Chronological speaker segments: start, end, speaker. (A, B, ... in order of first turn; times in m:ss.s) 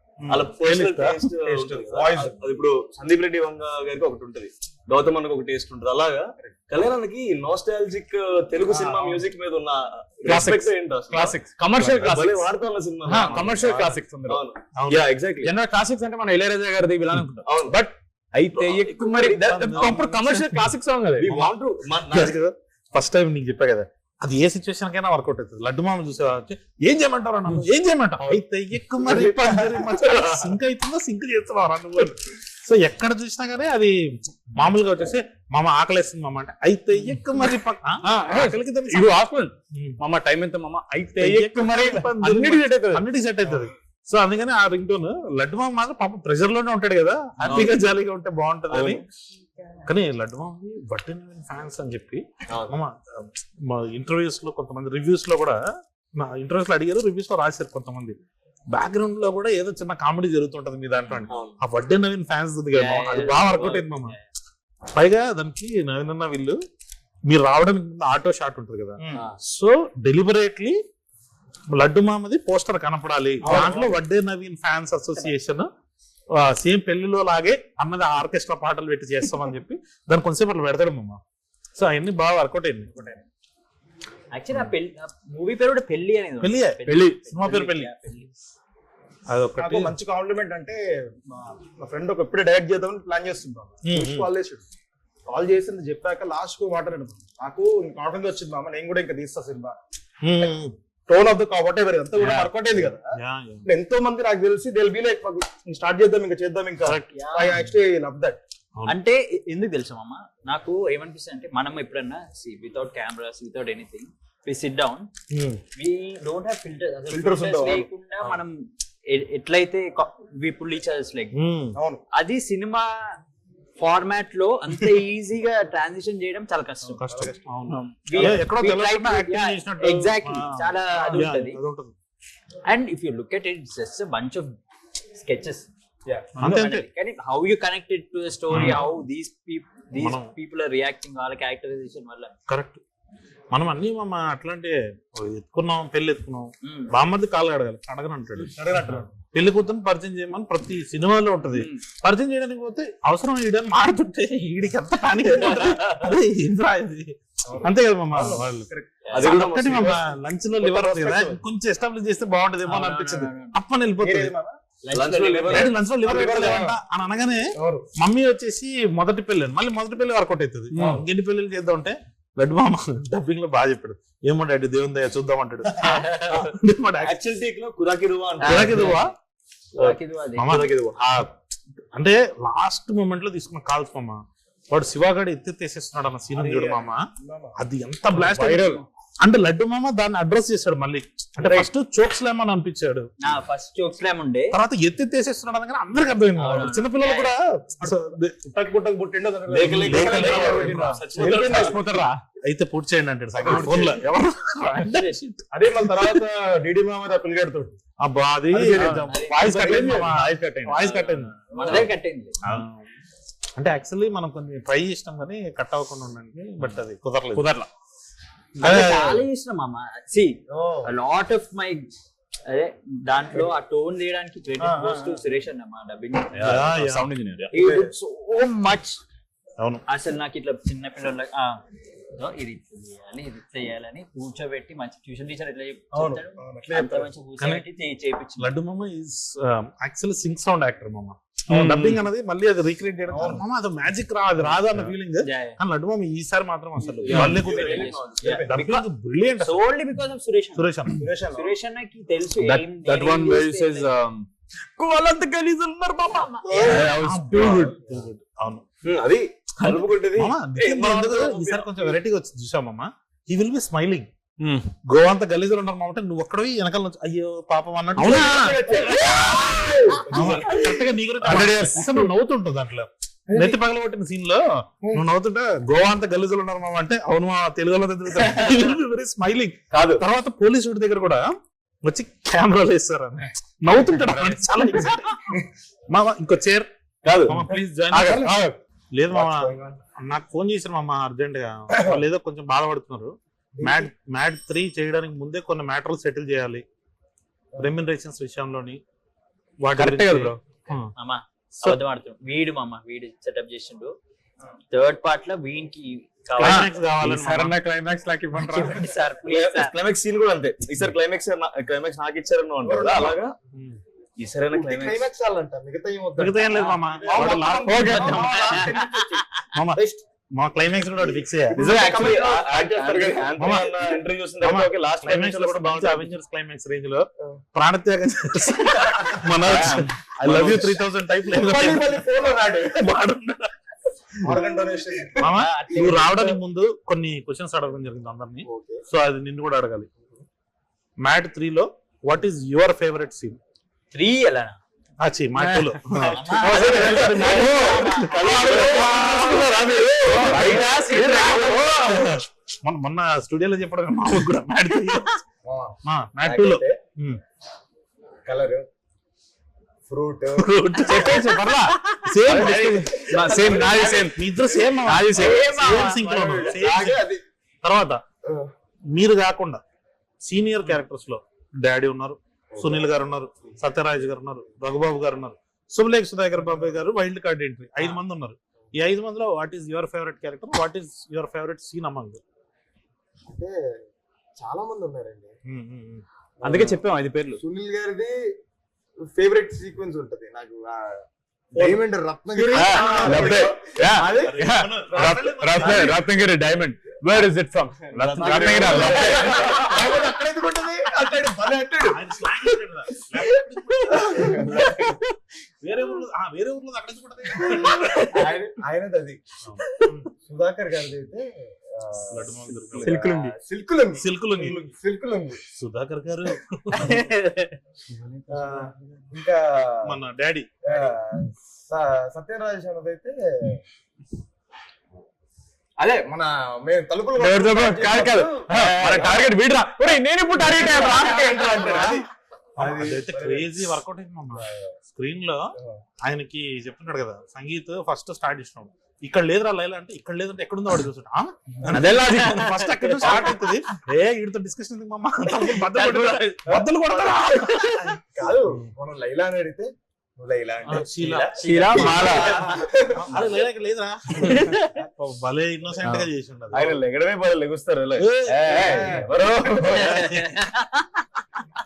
0:00.2-0:01.3 A
0:00.3-0:11.4 B
0:01.3-0:02.6 C
0:08.7-0:09.3 C
0:10.2-0:12.5 D
0:11.8-0:12.1 A
0:12.1-0:15.5 B
0:13.1-0:13.4 A
0:13.1-0:14.4 D
0:14.8-0:15.1 A
0:15.4-0:21.5 D
0:17.4-0:17.8 B
0:18.6-0:20.0 B
0:19.2-0:20.7 A
0:21.2-0:22.4 B
0:22.1-0:39.2 A
0:38.0-0:43.0 D
0:39.7-0:40.0 A
0:41.2-0:49.0 A
0:47.4-0:47.8 D
0:48.7-0:49.0 B
0:49.8-0:55.6 A
0:52.5-0:52.8 B
0:56.1-0:58.2 A
0:58.7-1:04.2 A
1:01.3-1:01.6 B
1:02.7-1:04.2 E
1:04.9-1:06.6 A
1:07.3-1:10.8 A
1:11.7-1:15.7 A
1:16.3-1:21.2 A
1:21.8-1:22.9 A
1:24.3-1:28.3 E
1:26.4-1:27.9 A
1:26.8-1:27.2 D
1:29.3-1:29.9 A
1:29.6-1:34.6 C
1:33.8-1:34.3 A
1:35.2-1:39.8 C
1:40.2-1:40.7 A
1:41.1-1:43.0 C
1:42.2-1:43.7 A
1:43.6-1:48.4 C
1:46.8-1:47.1 A
1:47.1-1:47.6 E
1:48.9-1:55.1 E
1:55.3-1:55.6 A
1:55.8-2:01.3 E
1:57.1-1:58.4 C
2:01.4-2:01.8 A
2:01.8-2:02.0 C
2:02.1-2:02.9 E
2:03.8-2:07.0 E
2:06.9-2:11.9 A
2:07.0-2:07.4 C
2:07.7-2:08.3 D
2:08.1-2:11.6 E
2:12.7-2:14.5 E
2:15.2-2:15.7 E
2:16.4-2:22.3 E
2:16.4-2:16.9 A
2:18.5-2:18.9 A
2:19.9-2:20.3 A
2:22.5-2:22.8 A
2:23.5-2:28.5 A
2:26.6-2:26.9 E
2:28.4-2:29.1 C
2:29.3-2:44.3 A
2:31.5-2:31.8 E
2:37.4-2:39.9 C
2:39.1-2:40.0 B
2:40.6-2:41.4 C
2:42.6-2:43.5 E
2:44.0-2:46.8 C
2:44.9-2:45.7 B
2:45.5-2:57.1 A
2:47.6-2:47.9 C
2:50.7-2:51.0 D
2:56.2-2:59.0 B
2:58.4-2:59.1 E
2:58.4-2:59.1 A
2:59.8-3:00.6 E
2:59.8-3:01.0 B
3:00.4-3:01.4 A
3:01.9-3:07.0 A
3:06.3-3:07.6 C
3:07.6-3:13.1 A
3:08.1-3:08.8 D
3:13.2-3:14.6 E
3:14.5-3:18.5 A
3:16.4-3:17.3 E
3:17.8-3:21.8 C
3:19.5-3:21.8 B
3:19.6-3:21.7 A
3:21.2-3:22.2 D
3:22.4-3:26.2 A
3:23.4-3:24.0 C
3:24.6-3:25.2 E
3:25.5-3:27.8 C
3:28.0-3:31.9 A
3:28.5-3:28.8 C
3:28.6-3:31.0 D
3:28.9-3:29.4 E
3:29.4-3:30.1 C
3:31.5-3:32.4 E
3:32.4-3:32.8 A
3:33.6-3:37.5 A
3:37.3-3:37.7 D
3:38.6-3:39.2 A
3:38.6-3:41.9 E
3:40.5-3:40.9 C
3:42.5-3:46.6 E
3:44.6-3:45.2 C
3:46.3-3:47.5 D
3:46.4-3:47.1 A
3:47.5-3:49.0 E
3:47.5-3:47.9 C
3:49.9-3:51.6 E
3:52.2-3:58.5 E
3:55.9-3:57.1 C
3:57.4-3:57.6 A
3:58.4-4:07.9 A
4:01.5-4:01.9 D
4:03.1-4:03.4 C
4:05.2-4:05.6 E
4:06.9-4:08.4 B
4:07.1-4:07.4 D
4:07.1-4:08.9 E
4:07.2-4:08.5 C
4:08.5-4:09.6 A
4:09.4-4:10.6 E
4:10.5-4:11.0 A
4:11.0-4:11.5 C
4:11.3-4:13.9 E
4:12.4-4:17.8 D
4:16.2-4:16.7 E
4:16.4-4:18.6 A
4:18.9-4:21.9 B
4:19.6-4:19.9 D
4:20.1-4:24.1 A
4:24.4-4:24.6 D
4:24.7-4:28.5 A
4:28.0-4:29.4 D
4:28.0-4:30.7 C
4:29.0-4:29.5 A
4:30.1-4:45.2 A
4:31.2-4:31.8 D
4:33.3-4:33.6 C
4:39.8-4:40.0 B
4:45.9-4:46.7 A
4:47.0-4:47.4 B
4:47.2-4:48.3 A
4:47.9-4:48.4 C
4:48.9-4:56.6 A
4:49.1-4:49.8 C
4:51.7-4:52.0 C
4:53.5-4:53.9 C
4:57.6-4:58.8 A
4:59.6-5:00.9 A
4:59.8-5:00.4 D
5:01.0-5:03.9 E
5:04.7-5:06.7 E
5:06.4-5:07.6 A
5:06.4-5:08.9 D
5:08.4-5:09.8 E
5:09.2-5:13.4 B
5:12.6-5:13.2 C
5:13.5-5:13.8 A
5:14.2-5:15.0 B
5:14.5-5:19.2 C
5:16.2-5:18.7 A
5:17.4-5:18.6 D
5:17.9-5:19.2 E
5:19.5-5:21.8 A
5:19.8-5:20.0 C
5:21.5-5:26.1 B
5:21.5-5:23.6 C
5:23.4-5:23.8 A
5:24.4-5:31.9 A
5:28.9-5:30.7 C
5:29.4-5:29.8 D
5:30.3-5:30.6 B
5:31.3-5:32.9 C
5:32.7-5:33.5 A
5:34.2-5:35.8 C
5:35.2-5:39.9 A
5:35.2-5:36.3 E
5:38.4-5:38.8 C
5:41.0-5:43.4 A
5:43.9-5:44.6 E
5:45.0-5:55.2 A
5:46.1-5:48.6 E
5:46.6-5:49.5 C
5:46.6-5:46.9 D
5:48.3-5:49.4 D
5:50.0-5:52.1 D
5:50.1-5:50.9 C
5:55.4-5:56.8 C
5:55.8-5:57.2 A
5:58.2-5:58.7 C
5:59.9-6:01.2 C
6:00.4-6:03.0 A
6:00.8-6:04.2 D
6:02.3-6:04.1 C
6:04.1-6:07.1 A
6:04.8-6:06.6 D
6:05.1-6:07.2 C
6:07.6-6:08.0 A
6:08.9-6:09.6 A
6:10.2-6:22.2 A
6:12.5-6:12.9 C
6:23.3-6:23.5 C
6:24.4-6:25.3 C
6:25.5-6:26.0 A
6:26.4-6:26.8 C
6:26.4-6:27.4 D
6:27.4-6:28.1 C
6:29.0-6:36.0 C
6:32.4-6:39.7 D
6:32.5-6:36.0 A
6:38.0-6:42.0 C
6:38.3-6:39.4 A
6:41.9-6:44.8 A
6:43.9-6:45.0 D
6:44.0-6:44.6 C
6:45.6-6:48.1 A
6:47.5-6:49.2 C
6:49.4-6:50.0 A
6:50.2-6:55.4 C
6:52.0-6:53.0 A
6:52.8-6:53.4 D
6:54.0-6:54.6 A
6:55.5-6:57.1 A
6:57.9-6:59.9 C
6:58.3-6:58.7 A
6:59.8-7:00.5 A
7:00.6-7:03.6 C
7:05.8-7:09.3 C
7:07.2-7:11.8 D
7:10.4-7:12.1 C
7:11.4-7:12.0 A
7:12.6-7:28.0 A
7:12.6-7:13.7 C
7:14.3-7:14.7 C
7:21.7-7:23.3 D
7:23.0-7:23.4 C
7:25.6-7:26.3 D
7:26.4-7:27.2 C
7:28.1-7:33.3 C
7:30.7-7:32.3 A
7:31.1-7:31.5 B
7:31.4-7:32.6 D
7:32.9-7:36.8 A
7:34.2-7:34.8 D
7:35.8-7:36.1 D
7:36.5-7:40.1 B
7:38.0-7:39.0 A
7:38.5-7:40.0 C
7:39.7-7:40.8 E
7:40.0-7:40.4 A